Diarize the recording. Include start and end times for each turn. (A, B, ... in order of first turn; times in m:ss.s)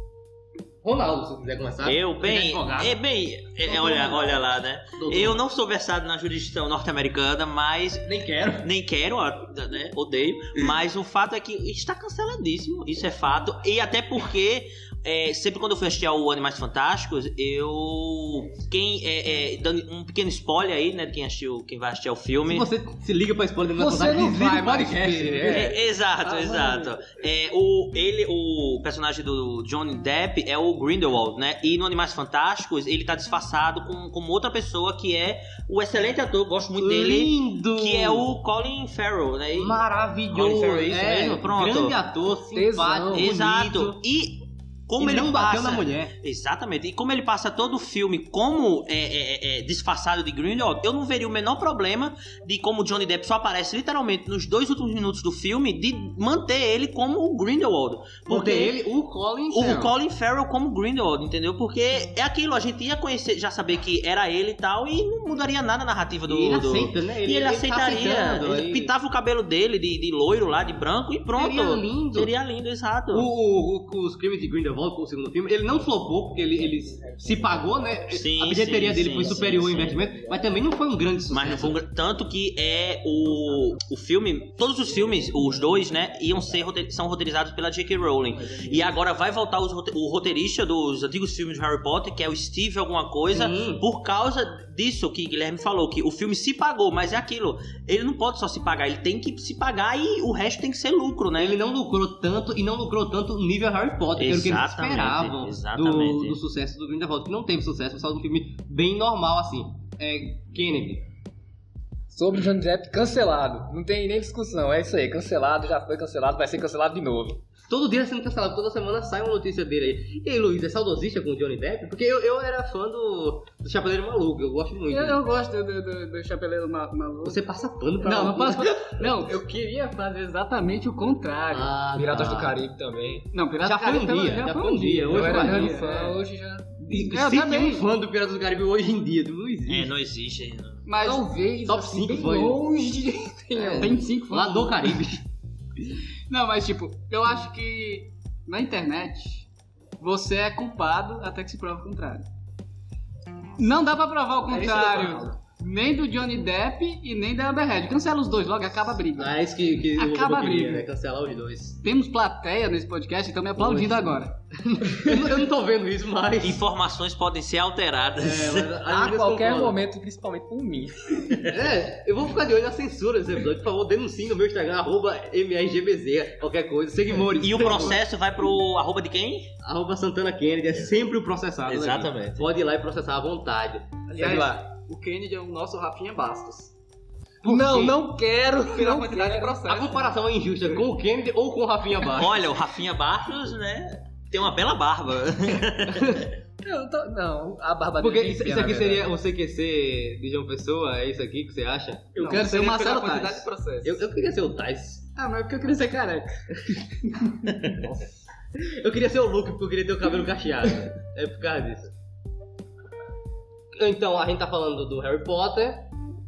0:00.8-0:03.0 A
0:01.8-0:22.7 B
0:03.6-0:05.4 A
0:08.0-0:08.7 A
0:22.4-0:25.8 A
0:23.8-0:26.9 C
0:25.5-0:39.8 B
0:36.8-0:38.3 A
0:39.6-0:44.0 A
0:40.3-0:42.0 B
0:42.5-0:43.3 C
0:43.1-0:58.8 B
0:45.0-0:46.1 A
0:58.3-0:59.9 A
0:59.5-1:13.3 B
1:06.3-1:08.9 A
1:11.3-1:12.3 A
1:13.1-1:21.8 A
1:18.1-1:20.0 B
1:21.3-1:41.6 B
1:33.3-1:33.8 A
1:41.4-1:51.1 A
1:44.2-1:46.4 B
1:52.1-1:57.4 C
1:57.7-2:05.2 A
2:04.9-2:07.4 D
2:07.2-2:09.2 A
2:08.0-2:11.7 D
2:11.5-2:12.6 A
2:12.0-2:13.3 C
2:13.3-2:16.2 D
2:13.6-2:15.8 A
2:15.1-2:16.7 C
2:16.8-2:19.9 A
2:16.9-2:17.8 D
2:19.7-2:20.8 B
2:20.9-2:21.3 D
2:21.0-2:24.0 C
2:21.6-2:22.6 A
2:23.6-2:25.2 A
2:23.8-2:25.1 D
2:26.3-2:29.5 D
2:30.0-2:32.3 D
2:33.6-2:39.4 D
2:34.5-2:35.3 E
2:39.2-2:41.8 A
2:40.0-2:40.9 D
2:41.8-2:44.4 D
2:43.6-2:46.6 A
2:46.4-2:48.7 B
2:48.2-2:49.8 A
2:48.9-2:51.4 C
2:51.5-2:58.0 A
2:57.4-2:59.5 B
2:59.6-3:04.4 A
3:01.7-3:02.5 B
3:04.1-3:06.7 E
3:04.2-3:04.6 C
3:07.4-3:08.0 A
3:07.4-3:09.7 C
3:08.7-3:10.1 E
3:09.7-3:12.5 A
3:12.1-3:16.3 B
3:15.9-3:16.3 A
3:16.6-3:19.1 C
3:18.0-3:22.5 A
3:22.2-3:23.5 D
3:22.2-3:23.9 E
3:23.8-3:25.1 A
3:25.2-3:26.4 D
3:27.6-3:28.0 E
3:28.6-3:31.9 A
3:33.7-3:35.9 A